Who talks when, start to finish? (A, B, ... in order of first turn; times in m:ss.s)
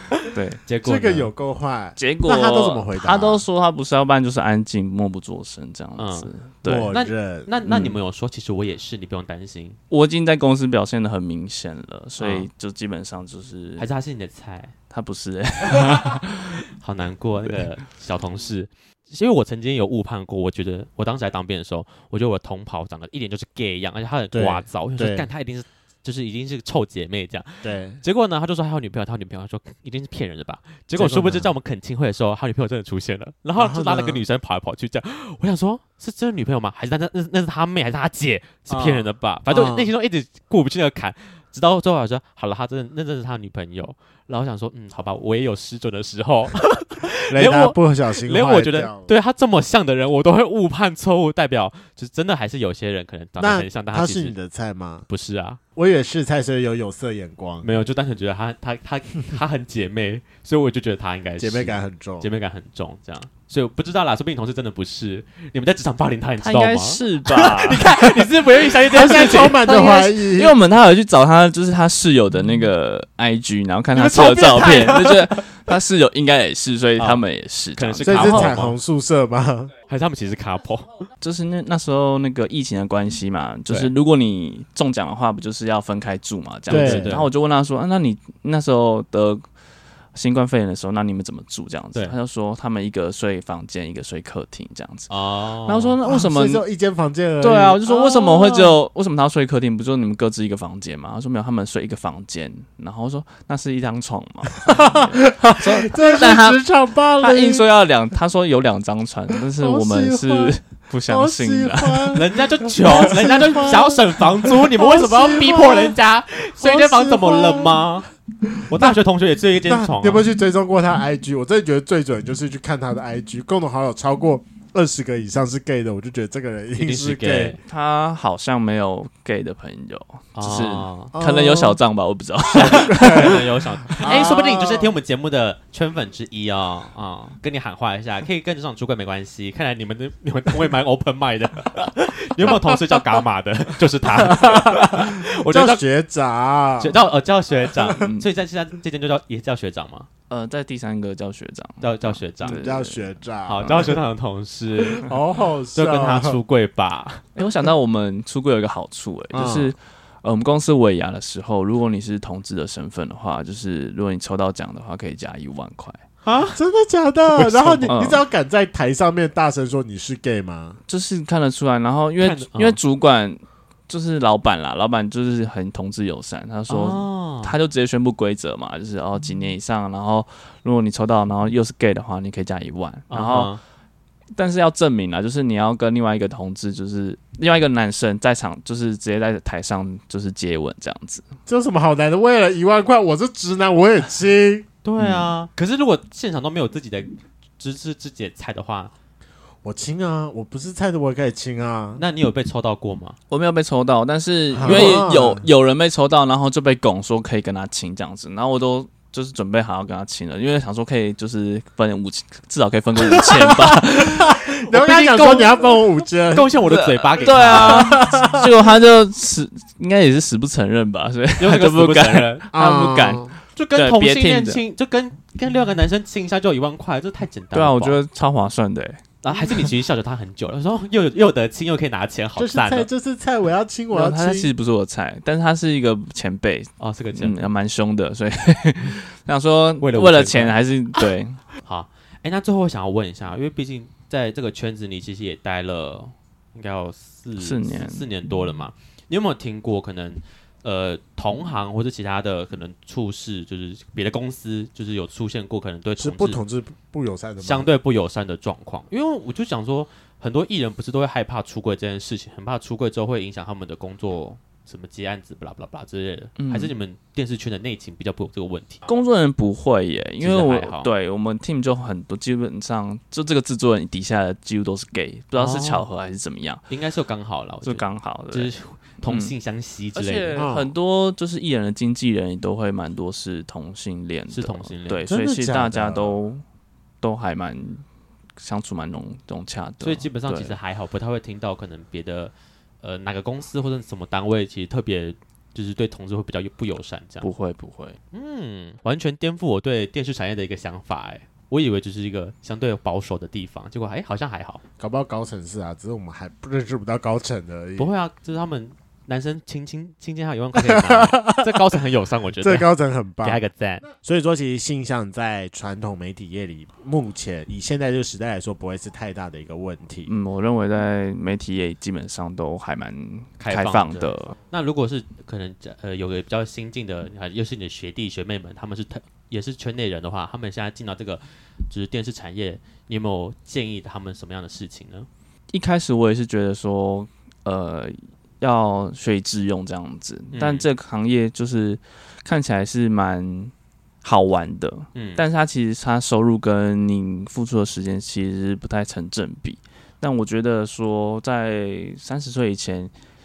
0:00.2-0:00.6 A
0:00.7-0:01.3 B
0:00.8-0:03.4 C
0:02.0-0:06.9 A
0:06.0-0:06.3 B
0:06.6-0:07.5 C
0:06.9-0:09.8 B
0:07.6-0:08.0 A
0:09.9-0:13.8 A
0:12.2-0:12.5 B
0:13.8-0:14.7 B
0:14.9-0:16.6 A
0:16.8-0:54.3 B
0:24.3-0:25.2 C
0:27.6-0:28.0 C
0:31.0-0:31.5 C
0:33.6-0:34.2 C
0:38.7-0:39.9 C
0:47.3-0:49.1 C
0:53.4-0:55.1 C
0:55.1-0:55.6 B
0:55.8-0:57.7 C
0:57.6-1:10.1 B
1:01.4-1:02.3 C
1:06.4-1:07.9 A
1:08.8-1:10.6 C
1:10.2-1:18.5 A
1:13.9-1:15.6 B
1:17.0-1:17.2 B
1:17.8-1:18.8 B
1:18.0-1:19.7 C
1:19.9-1:21.0 B
1:21.2-1:29.4 A
1:26.7-1:27.3 B
1:26.7-1:27.2 C
1:30.1-1:36.6 A
1:35.1-1:36.0 B
1:36.0-1:38.8 C
1:37.4-1:46.6 A
1:44.6-1:47.7 C
1:47.2-1:52.2 A
1:49.5-1:56.0 C
1:52.1-1:58.1 B
1:56.6-1:57.9 C
1:58.4-1:58.9 C
1:58.6-2:00.3 B
1:59.6-2:07.6 C
2:06.8-2:07.6 B
2:07.6-2:13.4 A
2:10.4-2:11.1 B
2:11.1-2:11.8 C
2:12.5-2:25.8 B
2:12.5-2:13.4 C
2:14.0-2:14.9 C
2:14.0-2:14.3 A
2:24.1-2:27.0 C
2:26.8-2:30.1 B
2:27.9-2:28.3 A
2:30.3-2:33.0 A
2:31.8-2:32.6 B
2:32.4-2:34.0 C
2:33.5-2:35.2 B
2:34.9-2:36.4 C
2:35.7-2:37.3 B
2:37.4-2:46.0 A
2:39.3-2:39.7 C
2:46.2-2:46.6 B
2:46.5-2:50.8 C
2:47.3-2:47.9 B
2:47.9-2:48.2 A
2:50.9-3:03.5 A
2:52.2-2:52.8 B
2:56.7-2:57.5 B
3:03.1-3:03.6 B
3:04.3-3:11.2 A
3:11.4-3:14.6 C
3:14.8-3:18.9 B
3:15.0-3:15.3 A
3:19.6-3:22.0 C
3:22.0-3:23.2 B
3:23.3-3:34.4 A
3:24.5-3:25.5 C
3:24.6-3:25.1 B
3:33.0-3:36.6 C
3:34.7-3:38.2 B
3:36.6-3:44.6 A
3:37.3-3:38.5 C
3:41.4-3:42.4 B
3:42.5-3:43.3 C
3:43.5-3:48.0 B
3:47.5-3:49.7 A
3:49.2-3:52.9 B
3:52.4-3:54.5 C
3:53.9-4:01.4 A
3:56.8-3:57.5 B
3:59.8-4:00.6 B
4:01.6-4:16.4 B
4:07.4-4:08.0 A
4:16.0-4:17.7 C
4:17.4-4:28.8 B
4:26.4-4:26.7 A
4:28.8-4:36.6 A
4:30.2-4:30.9 B
4:35.4-4:35.9 B
4:36.7-4:40.4 B
4:37.6-4:38.5 A
4:39.0-4:39.3 A
4:39.9-4:46.4 A
4:40.4-4:40.7 C
4:44.3-4:45.1 B
4:45.0-4:46.2 C
4:47.0-4:47.8 A
4:48.4-4:50.6 A
4:49.8-4:57.3 B
4:57.2-4:58.0 A
4:58.1-5:04.6 B
5:04.8-5:07.9 C
5:07.8-5:12.7 B
5:10.6-5:11.5 C
5:12.4-5:20.1 C
5:13.2-5:13.8 B
5:20.0-5:24.4 A
5:23.4-5:35.1 B
5:35.5-5:52.9 A
5:40.3-5:40.7 B
5:44.9-5:45.2 B